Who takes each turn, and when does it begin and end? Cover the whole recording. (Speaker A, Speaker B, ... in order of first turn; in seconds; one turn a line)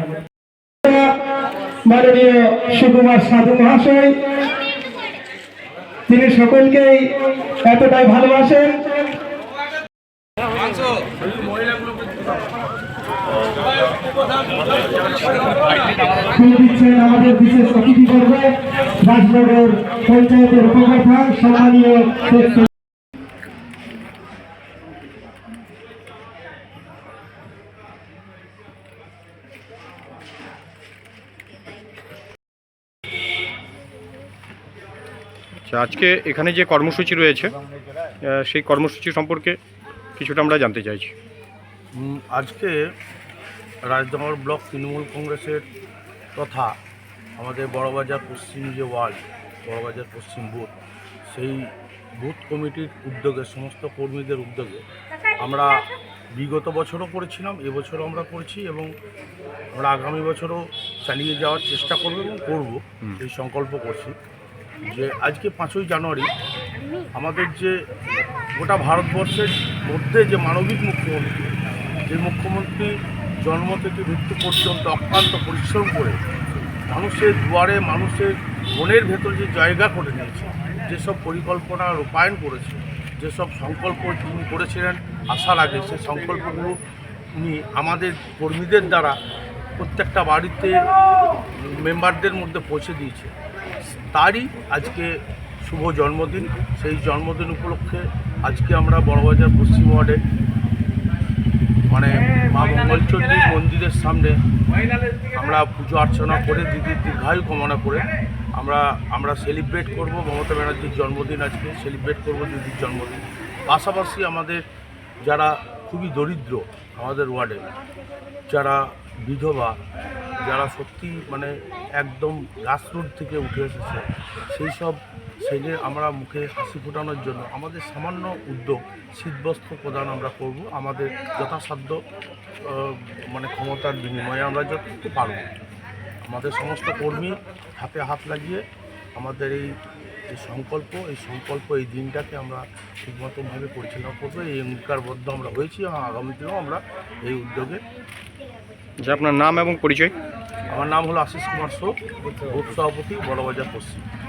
Speaker A: 0.8-1.1
Speaker A: 1.9-4.2
Speaker A: 6.1-7.1
Speaker A: 7.6-8.8
Speaker B: 11.6-11.9
Speaker A: 16.3-22.7
Speaker C: 35.6-37.5
Speaker C: 38.2-39.6
Speaker C: 40.2-41.1
Speaker B: 42.0-42.8
Speaker B: 43.9-45.6
Speaker B: 46.3-46.7
Speaker B: 47.4-50.7
Speaker B: 51.3-51.7
Speaker B: 52.2-54.8
Speaker B: 55.4-55.7
Speaker B: 56.4-58.9
Speaker B: 59.8-64.1
Speaker B: 64.8-66.3
Speaker B: 67.1-67.8
Speaker B: 68.5-71.4
Speaker B: 72.1-76.2
Speaker B: 76.9-86.8
Speaker B: 87.4-89.2
Speaker B: 89.8-90.9
Speaker B: 91.5-93.3
Speaker B: 94.1-100.2
Speaker B: 101.9-104.4
Speaker B: 105.3-108.0
Speaker B: 108.6-114.6
Speaker B: 115.2-117.6
Speaker B: 118.5-119.8
Speaker B: 120.4-132.0
Speaker B: 132.6-135.5
Speaker B: 136.2-138.6
Speaker B: 139.2-139.7
Speaker B: 140.3-147.8
Speaker C: 149.0-150.1
Speaker B: 150.7-154.0